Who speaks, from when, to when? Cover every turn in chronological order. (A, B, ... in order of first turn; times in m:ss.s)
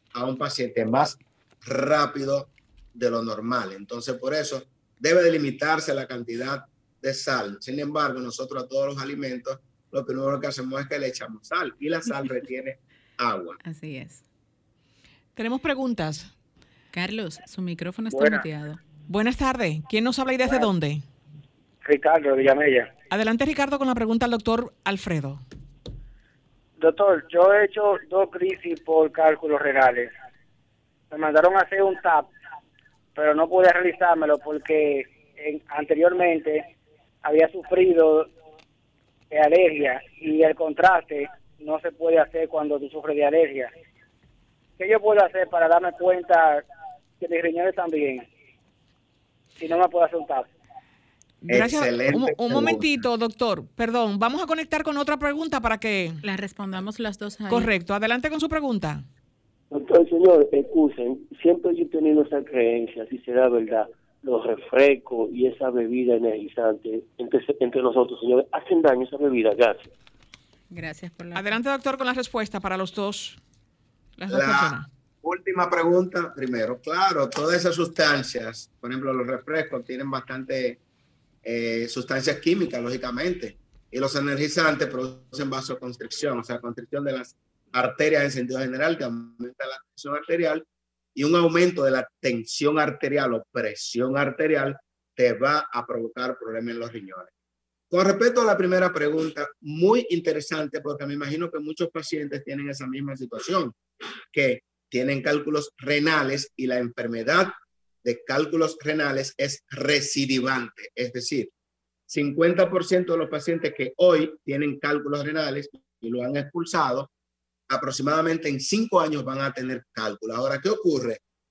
0:00.1-0:13.6 A
0:13.6-0:14.2 B
0:15.4-0:16.3 C
0:16.9-0:18.8 B
0:18.1-0:18.4 D
0:19.1-0:21.0 C
0:21.8-0:22.9 D
0:23.1-0:25.4 C
0:26.8-0:30.1 D
0:31.1-0:32.3 D
0:33.2-0:36.7 D
0:37.2-0:38.3 D
0:39.3-0:43.7 D
0:44.8-0:46.7 D
0:47.2-0:48.3 D
0:49.6-0:50.5 D
0:51.4-0:56.2 C
0:51.5-0:53.0 A
0:56.2-0:57.7 B
0:57.5-0:59.0 C
0:59.7-1:09.9 E
1:10.7-1:11.5 B
1:11.4-1:13.4 C
1:14.2-1:14.9 C
1:14.3-1:20.8 A
1:21.4-1:37.3 A
1:37.9-1:43.8 A
1:44.3-1:47.5 A
1:48.0-1:51.5 A
1:52.1-1:57.1 A
1:57.7-2:01.2 A